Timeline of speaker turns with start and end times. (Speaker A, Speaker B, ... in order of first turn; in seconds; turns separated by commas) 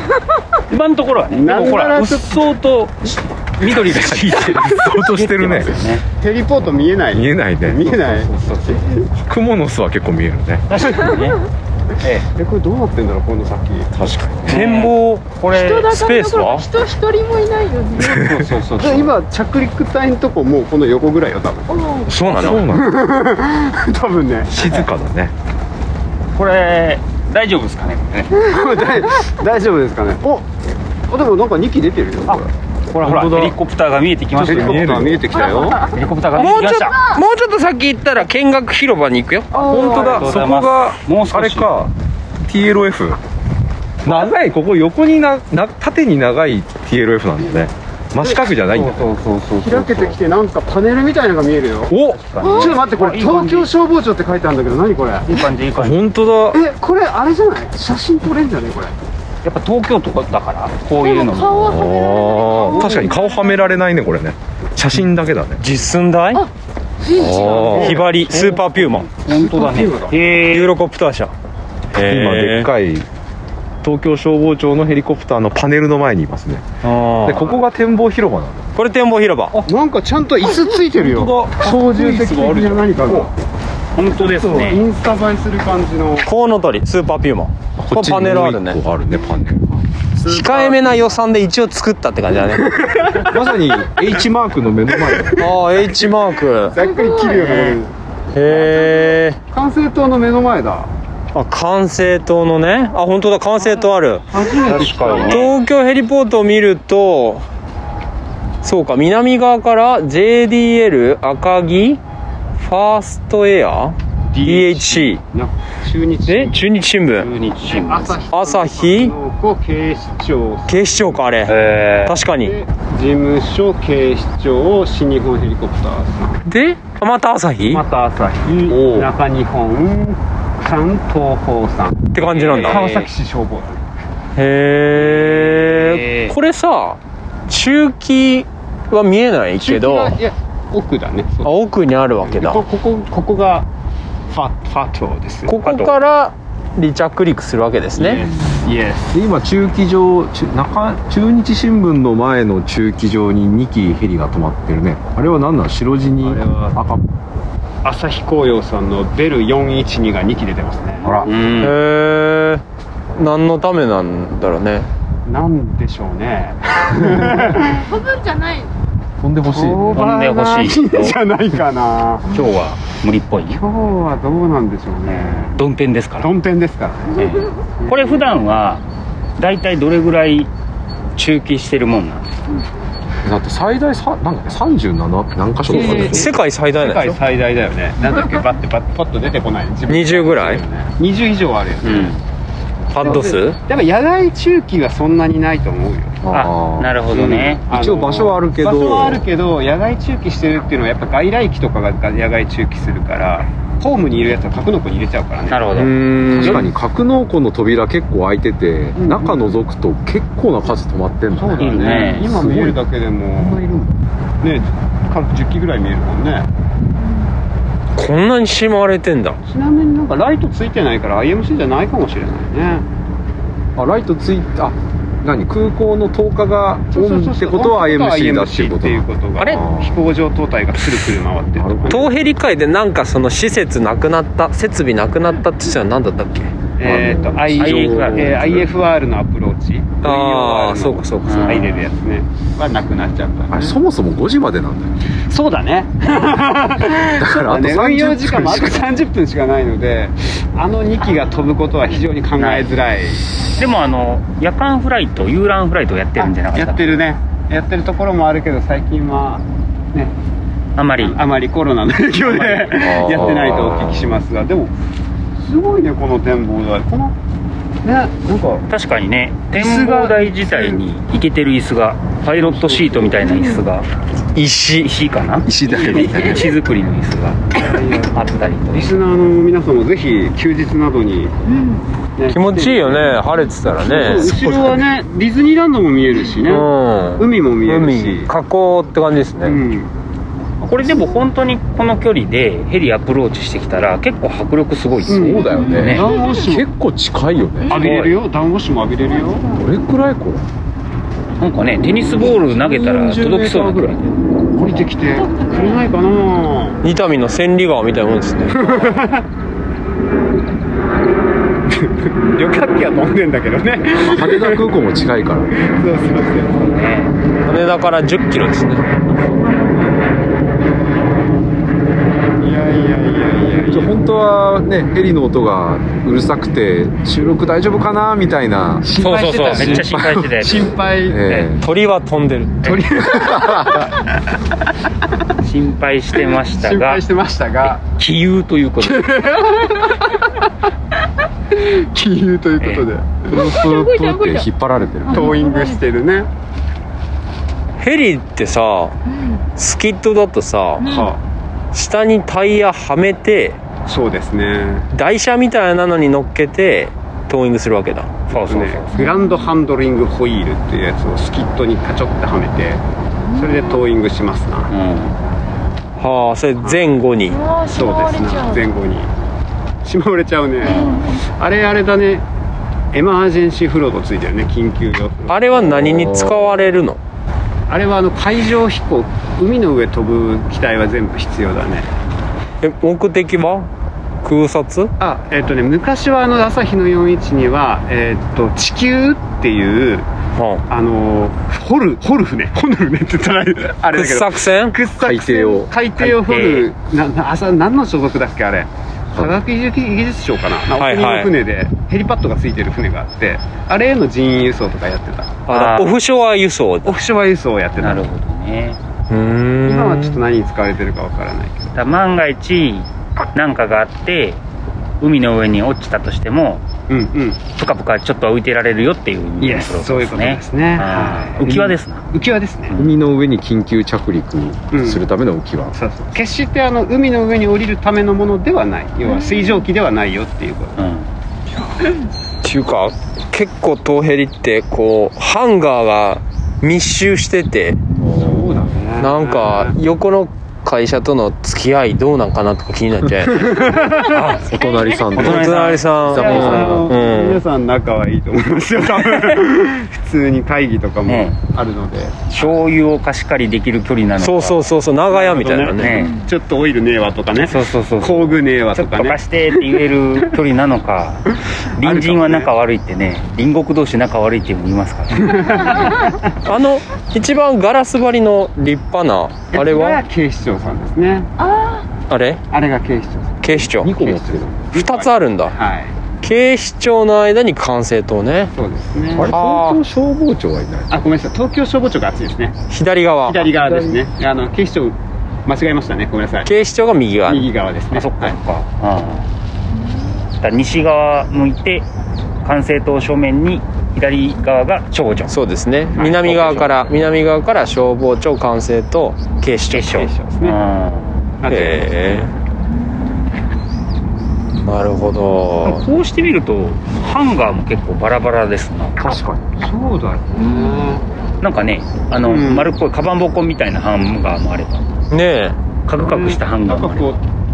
Speaker A: 0.7-6.0, Speaker B: 1.3-2.4, Speaker C: 3.6-5.8, Speaker B: 6.2-9.1, Speaker C: 7.1-8.1, Speaker A: 7.9-8.8, Speaker C: 9.1-10.6, Speaker A: 10.7-11.4, Speaker A: 12.0-12.3, Speaker B: 12.3-13.9, Speaker C: 13.9-14.6, Speaker D: 14.5-16.7, Speaker A: 14.5-15.9, Speaker E: 15.5-18.2, Speaker C: 18.0-18.5, Speaker A: 18.1-19.1, Speaker B: 18.8-21.9, Speaker E: 21.8-22.1, Speaker D: 22.1-22.6, Speaker C: 22.2-23.0, Speaker A: 22.3-22.6, Speaker B: 22.6-24.6, Speaker C: 24.5-25.3, Speaker A: 26.4-28.3, Speaker B: 28.3-30.5, Speaker B: 31.1-32.5, Speaker A: 32.3-35.1, Speaker C: 33.0-33.6, Speaker C: 34.4-35.3, Speaker B: 34.4-35.9, Speaker A: 35.8-37.1, Speaker D: 36.3-39.5, Speaker B: 39.5-40.4, Speaker C: 39.5-43.2, Speaker A: 39.7-41.9, Speaker C: 44.0-49.1, Speaker A: 48.2-50.2, Speaker B: 49.6-55.4, Speaker C: 51.9-52.8, Speaker A: 52.1-53.7, Speaker A: 55.3-56.0, Speaker C: 55.8-56.6, Speaker B: 56.5-59.0, Speaker A: 59.4-61.9, Speaker E: 61.2-62.8, Speaker C: 61.5-65.6, Speaker B: 62.6-63.1, Speaker D: 65.6-66.5, Speaker C: 67.1-68.2, Speaker B: 67.2-70.2, Speaker D: 67.5-69.1, Speaker A: 69.2-70.8, Speaker D: 70.5-71.3, Speaker D: 71.9-72.7, Speaker C: 72.1-73.1, Speaker C: 73.8-76.7, Speaker D: 76.8-77.4, Speaker C: 77.2-78.7, Speaker A: 77.3-77.6, Speaker D: 78.8-79.6, Speaker B: 79.7-83.3, Speaker C: 80.4-83.3, Speaker A: 84.0-84.8, Speaker B: 84.1-86.3, Speaker D: 86.2-88.8, Speaker C: 87.8-89.8, Speaker D: 90.2-92.7, Speaker A: 90.2-91.0, Speaker B: 92.5-93.5, Speaker C: 93.2-95.5, Speaker D: 95.4-96.8, Speaker B: 96.7-97.9, Speaker A: 97.1-97.8, Speaker D: 98.3-99.4, Speaker B: 98.5-100.9, Speaker D: 101.3-104.2, Speaker B: 103.7-105.5, Speaker A: 104.4-105.5, Speaker D: 105.1-107.4, Speaker D: 108.6-112.0, Speaker D: 112.6-115.2, Speaker B: 114.3-116.6, Speaker D: 116.3-117.3, Speaker A: 117.2-118.2, Speaker B: 117.7-121.2, Speaker D: 118.3-119.1, Speaker D: 120.7-122.6, Speaker A: 121.5-122.2, Speaker B: 122.4-126.4, Speaker D: 126.5-127.8, Speaker B: 127.7-133.8, Speaker C: 128.7-129.1, Speaker D: 132.1-132.9, Speaker A: 132.2-133.1, Speaker D: 134.4-140.2, Speaker A: 135.0-136.3, Speaker B: 139.6-141.6, Speaker D: 141.4-142.6, Speaker B: 142.2-143.7, Speaker B: 144.3-145.7, Speaker D: 145.5-148.3, Speaker A: 145.7-145.9, Speaker B: 147.9-149.2, Speaker C: 149.1-157.0, Speaker B: 156.2-156.8, Speaker B: 157.8-161.3, Speaker C: 161.0-161.3, Speaker A: 161.1-161.8, Speaker D: 161.6-162.6, Speaker D: 163.2-164.9, Speaker B: 165.3-168.0, Speaker E: 168.2-168.7, Speaker C: 169.2-170.1, Speaker B: 169.5-172.3, Speaker A: 169.9-171.2, Speaker A: 172.3-173.6, Speaker B: 173.5-175.6, Speaker A: 175.1-176.3, Speaker B: 176.2-177.3, Speaker A: 177.2-178.8, Speaker A: 179.4-180.5, Speaker A: 181.2-182.3, Speaker C: 183.2-186.4, Speaker D: 185.7-187.2, Speaker B: 185.7-192.2, Speaker D: 189.9-190.6, Speaker A: 191.8-192.2, Speaker D: 192.9-193.6, Speaker B: 193.0-196.2, Speaker C: 196.2-197.0, Speaker A: 196.3-197.7, Speaker B: 197.1-205.7, Speaker C: 197.7-199.2, Speaker A: 205.5-206.7, Speaker D: 205.7-206.7, Speaker C: 206.3-212.8, Speaker B: 209.0-209.4, Speaker B: 211.3-213.6, Speaker A: 211.6-212.3, Speaker C: 213.4-214.0, Speaker B: 214.4-216.5, Speaker D: 218.0-219.4, Speaker B: 219.5-222.9, Speaker C: 223.8-230.0, Speaker B: 226.9-232.1, Speaker C: 231.5-232.1, Speaker D: 231.9-236.5, Speaker B: 236.8-243.8, Speaker C: 236.8-238.9, Speaker A: 237.5-238.4, Speaker D: 237.8-238.4, Speaker D: 240.0-241.7, Speaker C: 240.2-240.7, Speaker A: 241.2-241.9, Speaker C: 243.5-244.9, Speaker B: 245.3-253.3, Speaker C: 247.1-249.0, Speaker A: 252.4-252.7, Speaker A: 253.6-257.0, Speaker B: 256.2-260.1, Speaker A: 260.8-261.2, Speaker B: 261.0-264.7, Speaker C: 262.4-264.2, Speaker B: 265.4-267.2, Speaker B: 267.8-268.7, Speaker A: 268.7-273.9, Speaker B: 269.5-270.8, Speaker B: 272.3-273.6, Speaker D: 274.4-274.9, Speaker A: 274.8-279.0, Speaker C: 275.5-276.5, Speaker B: 277.6-281.3, Speaker B: 282.2-283.2, Speaker D: 282.3-284.4, Speaker B: 283.8-288.3, Speaker A: 283.9-284.4, Speaker D: 286.4-289.6, Speaker B: 289.4-289.9, Speaker A: 290.6-296.1, Speaker C: 295.1-297.9, Speaker B: 295.1-296.7, Speaker B: 297.7-299.5, Speaker A: 297.7-298.0, Speaker D: 297.8-298.2, Speaker C: 299.5-300.5, Speaker A: 301.4-304.0, Speaker C: 302.0-304.1, Speaker B: 304.6-306.8, Speaker E: 305.4-305.7, Speaker D: 306.8-308.7, Speaker B: 308.5-309.2, Speaker A: 308.6-308.9, Speaker B: 311.7-314.7, Speaker C: 314.0-315.5, Speaker B: 315.5-316.8, Speaker A: 316.6-317.2, Speaker D: 317.5-318.9, Speaker B: 322.4-324.0, Speaker C: 323.7-330.5, Speaker A: 329.0-331.5, Speaker D: 329.1-329.8, Speaker B: 329.2-331.2, Speaker C: 331.1-331.7, Speaker D: 331.6-332.6, Speaker A: 332.6-332.9, Speaker B: 332.7-334.1, Speaker C: 332.7-333.9, Speaker A: 335.4-337.0, Speaker B: 336.4-337.8, Speaker A: 337.7-339.1, Speaker B: 338.8-340.5, Speaker B: 341.5-343.5, Speaker A: 342.6-342.9, Speaker C: 343.3-345.4, Speaker E: 343.3-344.5, Speaker B: 345.1-346.3, Speaker E: 345.3-345.7, Speaker D: 347.8-351.0, Speaker E: 350.8-351.1, Speaker B: 350.8-351.2, Speaker D: 351.7-353.6, Speaker B: 353.9-354.9, Speaker D: 354.9-358.1, Speaker A: 358.3-359.1, Speaker B: 358.5-362.8, Speaker B: 363.3-364.7, Speaker A: 364.7-365.2, Speaker D: 366.0-367.5, Speaker B: 366.6-366.9, Speaker E: 367.5-368.6, Speaker B: 367.6-369.1, Speaker B: 369.8-372.2, Speaker A: 370.6-371.0, Speaker B: 372.9-375.8, Speaker D: 375.3-377.0, Speaker C: 375.5-376.8, Speaker B: 377.7-381.9, Speaker D: 382.6-383.7, Speaker D: 384.2-384.9, Speaker B: 385.0-390.1, Speaker D: 390.4-390.6, Speaker B: 390.7-405.4, Speaker D: 393.9-394.8, Speaker C: 395.0-395.7, Speaker A: 396.0-396.7, Speaker D: 400.8-401.3, Speaker D: 405.5-407.0, Speaker A: 405.5-406.0, Speaker B: 406.9-408.1, Speaker A: 407.8-408.8, Speaker D: 409.1-410.2, Speaker B: 409.6-411.8, Speaker A: 411.8-414.4, Speaker A: 415.0-416.7, Speaker B: 416.9-417.4, Speaker A: 417.5-422.1, Speaker B: 419.4-421.4, Speaker C: 421.4-421.8, Speaker B: 422.1-422.8, Speaker A: 422.7-422.9, Speaker C: 422.8-425.8, Speaker B: 424.7-425.1, Speaker B: 425.7-430.8, Speaker A: 430.8-431.1, Speaker D: 432.4-437.8, Speaker C: 438.0-438.8, Speaker B: 438.0-439.8, Speaker D: 439.0-444.5, Speaker B: 443.3-444.4, Speaker C: 444.2-445.5, Speaker E: 444.6-445.0, Speaker A: 445.1-446.8, Speaker D: 445.2-447.4, Speaker C: 446.1-446.9, Speaker B: 446.1-452.6, Speaker A: 449.1-449.4, Speaker A: 451.1-451.4, Speaker A: 452.3-454.7, Speaker D: 454.2-456.1, Speaker B: 455.1-459.2, Speaker A: 455.8-456.2, Speaker A: 457.4-466.0, Speaker B: 461.8-462.5, Speaker B: 465.2-466.3, Speaker D: 466.4-470.0, Speaker B: 469.5-471.3, Speaker D: 472.1-472.4, Speaker B: 472.5-475.9, Speaker D: 473.4-473.9, Speaker C: 473.7-474.7, Speaker D: 474.7-475.6, Speaker D: 476.2-478.5, Speaker B: 478.5-479.3, Speaker C: 479.1-481.0, Speaker D: 479.2-479.8, Speaker B: 480.9-482.6, Speaker D: 482.7-483.5, Speaker B: 483.2-486.5, Speaker C: 483.7-483.9, Speaker D: 486.4-487.5, Speaker B: 487.3-488.4, Speaker A: 487.9-489.3, Speaker A: 490.4-491.9, Speaker A: 492.4-495.4, Speaker D: 495.3-500.1, Speaker A: 495.9-496.9, Speaker A: 499.7-501.3, Speaker B: 499.9-500.6, Speaker B: 501.4-502.2, Speaker D: 501.5-502.3, Speaker D: 504.6-505.8, Speaker A: 505.6-509.2, Speaker C: 509.0-509.6, Speaker B: 509.6-511.0, Speaker A: 510.4-510.8, Speaker A: 511.4-514.9, Speaker B: 512.2-512.7, Speaker D: 515.1-515.6, Speaker A: 515.9-517.1, Speaker B: 516.0-517.2